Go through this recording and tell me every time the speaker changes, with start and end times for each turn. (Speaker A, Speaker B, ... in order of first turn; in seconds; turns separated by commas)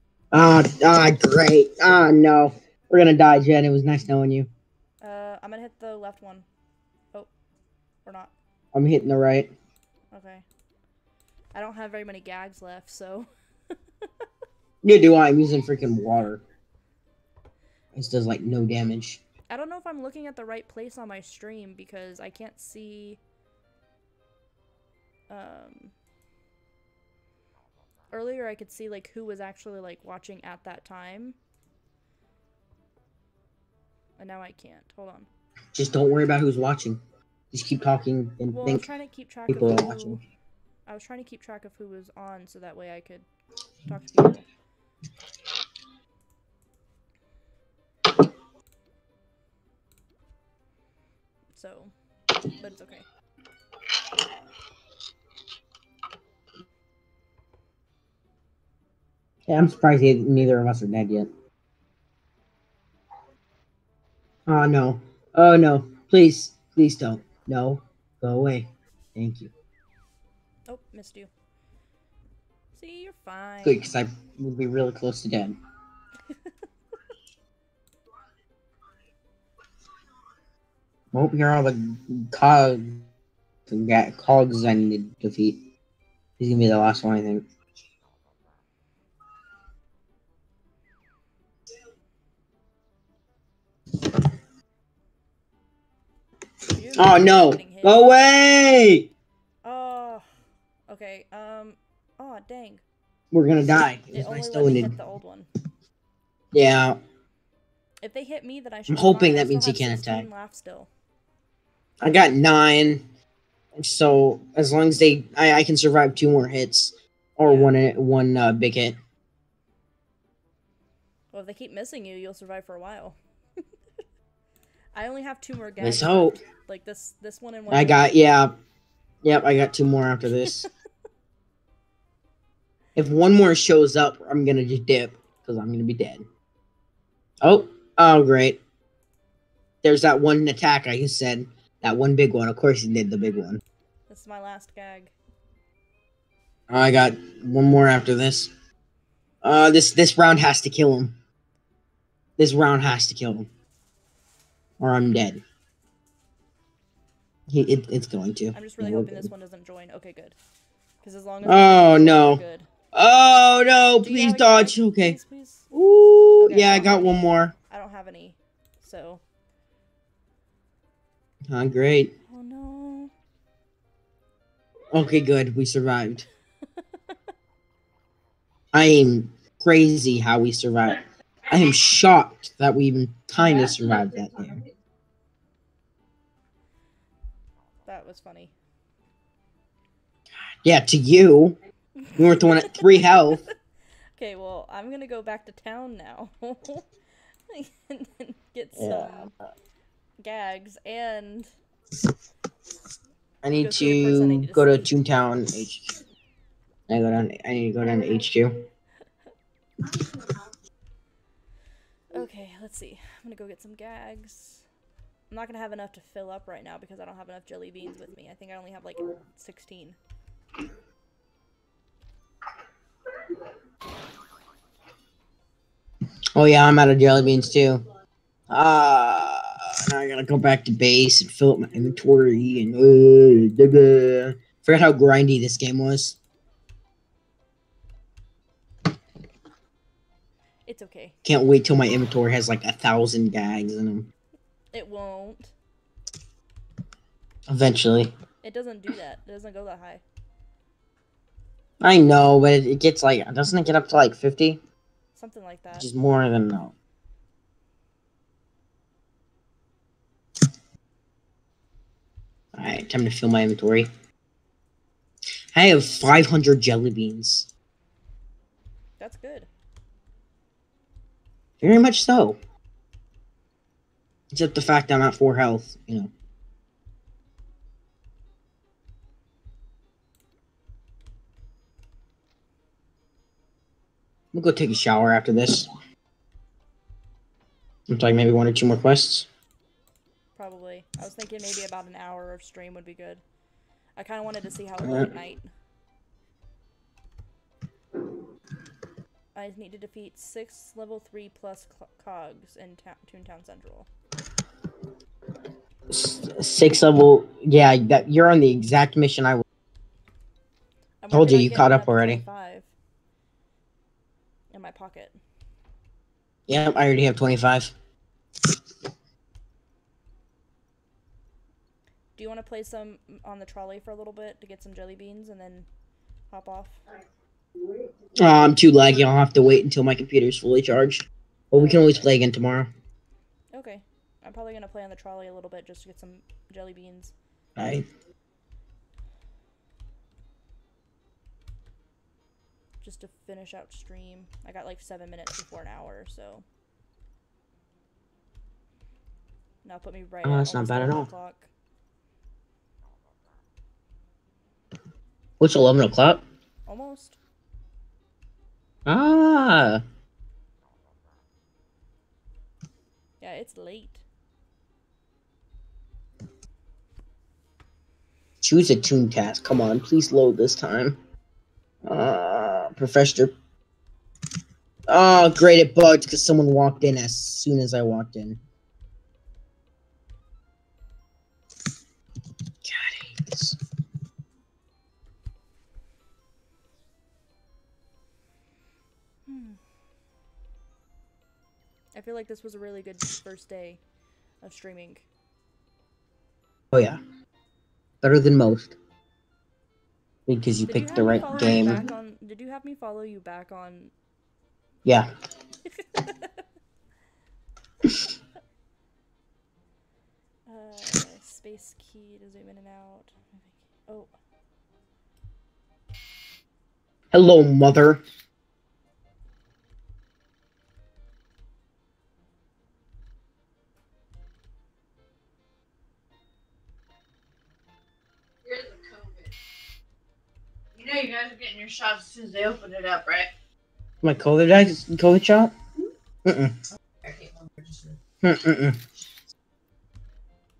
Speaker A: 0.3-4.5, Speaker B: 5.0-6.5, Speaker B: 8.0-8.3, Speaker A: 8.7-9.5, Speaker B: 10.1-10.4, Speaker B: 11.5-13.3, Speaker A: 14.8-16.4, Speaker A: 17.9-19.2, Speaker B: 19.5-23.2, Speaker B: 25.3-25.9, Speaker B: 28.1-31.4, Speaker B: 34.2-35.3, Speaker A: 35.8-37.0, Speaker A: 37.5-38.9, Speaker B: 38.5-40.2, Speaker A: 39.5-40.2, Speaker B: 40.9-43.3, Speaker B: 43.9-44.5, Speaker B: 51.5-51.9, Speaker B: 52.6-53.1, Speaker A: 59.5-61.3, Speaker A: 64.5-69.5, Speaker B: 70.7-71.3, Speaker B: 72.7-73.9, Speaker A: 73.6-75.6, Speaker A: 81.1-83.1, Speaker A: 83.7-85.7, Speaker A: 86.4-87.5, Speaker B: 96.7-98.0, Speaker A: 97.0-99.1, Speaker B: 99.6-100.3, Speaker B: 100.9-102.8, Speaker A: 103.3-105.0, Speaker B: 104.1-105.5, Speaker A: 106.5-107.0, Speaker B: 108.0-110.9, Speaker A: 108.9-110.3, Speaker A: 112.0-113.1, Speaker A: 113.8-119.0, Speaker B: 117.4-117.8, Speaker B: 121.3-123.2, Speaker B: 124.9-128.2, Speaker A: 125.8-126.4, Speaker A: 127.7-128.6, Speaker A: 129.2-130.7, Speaker A: 132.9-136.3, Speaker A: 137.4-138.6, Speaker A: 139.8-143.6, Speaker B: 144.1-145.1, Speaker A: 146.7-148.5, Speaker A: 149.4-151.1, Speaker A: 152.4-153.5, Speaker A: 154.8-155.4, Speaker A: 157.5-159.3, Speaker B: 158.5-160.4, Speaker B: 161.0-162.7, Speaker A: 161.4-162.4, Speaker A: 162.9-165.2, Speaker B: 164.0-165.7, Speaker A: 165.7-167.5, Speaker B: 166.4-169.2, Speaker A: 171.5-172.1, Speaker B: 172.3-173.1, Speaker A: 174.9-176.3, Speaker A: 178.7-184.6, Speaker C: 183.5-184.0, Speaker B: 187.9-188.5, Speaker A: 190.6-191.6, Speaker B: 192.1-193.3, Speaker A: 192.2-193.4, Speaker B: 194.2-196.9, Speaker B: 197.5-199.3, Speaker A: 198.8-199.3, Speaker B: 200.2-201.5, Speaker A: 203.4-206.0, Speaker B: 203.6-204.9, Speaker A: 206.9-208.6, Speaker B: 212.1-214.6, Speaker B: 215.3-220.0, Speaker A: 226.3-227.8, Speaker A: 228.5-236.2, Speaker B: 240.7-241.2, Speaker A: 241.2-244.1, Speaker B: 244.7-245.5, Speaker A: 247.5-248.1, Speaker B: 248.4-250.0, Speaker A: 251.8-254.6, Speaker B: 255.1-255.9, Speaker A: 255.8-256.7, Speaker A: 262.6-263.9, Speaker A: 265.5-267.5, Speaker B: 269.0-269.5, Speaker A: 271.6-272.4, Speaker A: 274.3-276.1, Speaker A: 284.3-285.7, Speaker A: 287.9-289.3, Speaker B: 290.4-293.2, Speaker B: 293.9-295.5, Speaker A: 294.8-295.1, Speaker B: 299.4-303.9, Speaker A: 305.9-309.4, Speaker B: 311.0-312.7, Speaker A: 311.1-312.2, Speaker B: 314.5-315.2, Speaker A: 316.5-317.7, Speaker B: 322.2-325.7, Speaker B: 326.3-326.8, Speaker A: 328.2-332.7, Speaker B: 331.6-332.1, Speaker B: 333.5-337.1, Speaker A: 337.6-337.9, Speaker B: 342.8-346.4, Speaker B: 349.6-351.5, Speaker A: 350.2-351.1, Speaker A: 355.4-356.2, Speaker B: 356.7-357.2, Speaker A: 358.9-359.8, Speaker B: 363.2-364.0, Speaker A: 368.4-371.0, Speaker A: 371.9-373.3, Speaker A: 374.9-378.4, Speaker A: 382.6-383.6, Speaker B: 389.3-389.6, Speaker B: 391.9-393.8, Speaker B: 394.4-395.1, Speaker A: 396.7-397.0, Speaker A: 398.0-398.8, Speaker A: 400.3-401.9, Speaker B: 400.7-403.9, Speaker B: 405.8-406.3, Speaker B: 410.4-414.1, Speaker A: 417.1-418.0, Speaker C: 428.4-429.3, Speaker C: 430.8-433.3, Speaker A: 434.0-435.5, Speaker A: 436.2-436.6, Speaker C: 437.0-438.0, Speaker A: 438.2-438.8